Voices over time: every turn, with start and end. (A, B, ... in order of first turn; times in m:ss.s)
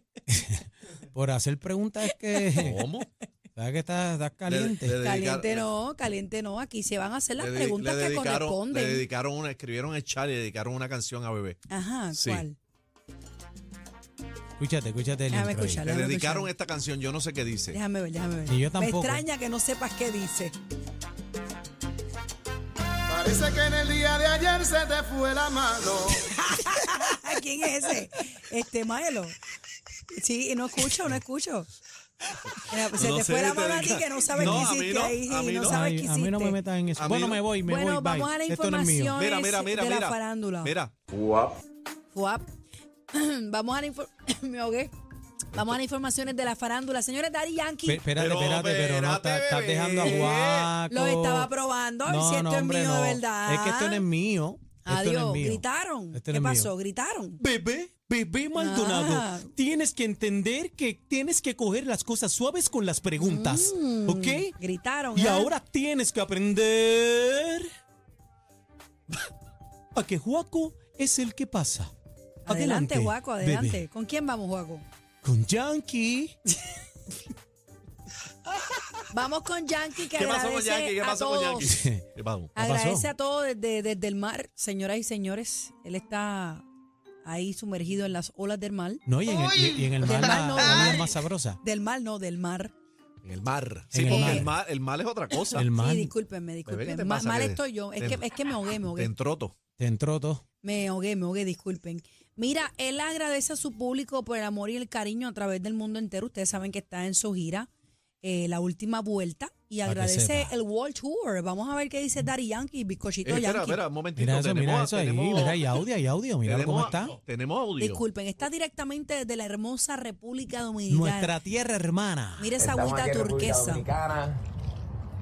0:00.3-0:02.8 A
0:02.6-0:03.1 B
0:03.6-0:05.0 A
0:04.5-0:05.7 B
0:04.9-0:09.1 C
0:07.4-0:11.6 B
0:11.7-0:12.6 C
0:12.1-0:12.5 B
0:14.6-0:15.8 A
0:15.3-0:16.5 C
0:15.8-0:17.8 B
0:17.7-0:20.5 C
0:18.5-0:19.2 A
0:23.1-0:26.2 D
0:26.2-0:29.4 C
0:30.1-0:31.7 C
0:32.6-0:35.8 B
0:32.7-0:36.6 C
0:34.3-0:34.7 A
0:35.7-0:39.2 A
0:37.0-0:37.5 B
0:37.5-0:40.8 C
0:39.1-0:40.9 B
0:41.1-0:41.6 E
0:42.1-0:42.4 C
0:43.1-0:44.9 C
0:45.5-0:48.1 C
0:47.9-0:51.5 A
0:48.1-0:50.8 B
0:50.0-0:50.3 C
0:50.9-0:54.0 C
0:52.1-0:55.6 A
0:54.8-0:57.4 C
0:56.1-0:56.7 A
0:57.4-1:04.5 A
0:58.6-0:59.5 C
1:03.2-1:05.5 C
1:05.1-1:07.7 A
1:10.0-1:11.9 A
1:12.5-1:14.8 C
1:12.5-1:13.8 A
1:15.2-1:16.4 A
1:19.1-1:21.8 C
1:20.1-1:22.5 B
1:21.7-1:22.1 A
1:22.6-1:26.6 C
1:22.6-1:23.1 A
1:27.2-1:29.0 C
1:29.1-1:31.6 A
1:29.3-1:30.9 B
1:29.9-1:32.7 C
1:33.2-1:35.7 B
1:33.9-1:34.5 A
1:34.0-1:34.5 C
1:35.5-1:36.1 A
1:35.6-1:39.1 C
1:36.7-1:38.2 B
1:38.8-1:39.5 B
1:39.8-1:40.4 A
1:40.6-1:47.7 C
1:48.2-1:53.8 C
1:49.8-1:50.5 A
1:53.2-1:55.8 B
1:54.2-1:57.2 A
1:56.4-1:58.0 B
1:57.8-2:01.4 C
2:00.9-2:02.5 A
2:02.4-2:03.8 C
2:02.6-2:04.4 E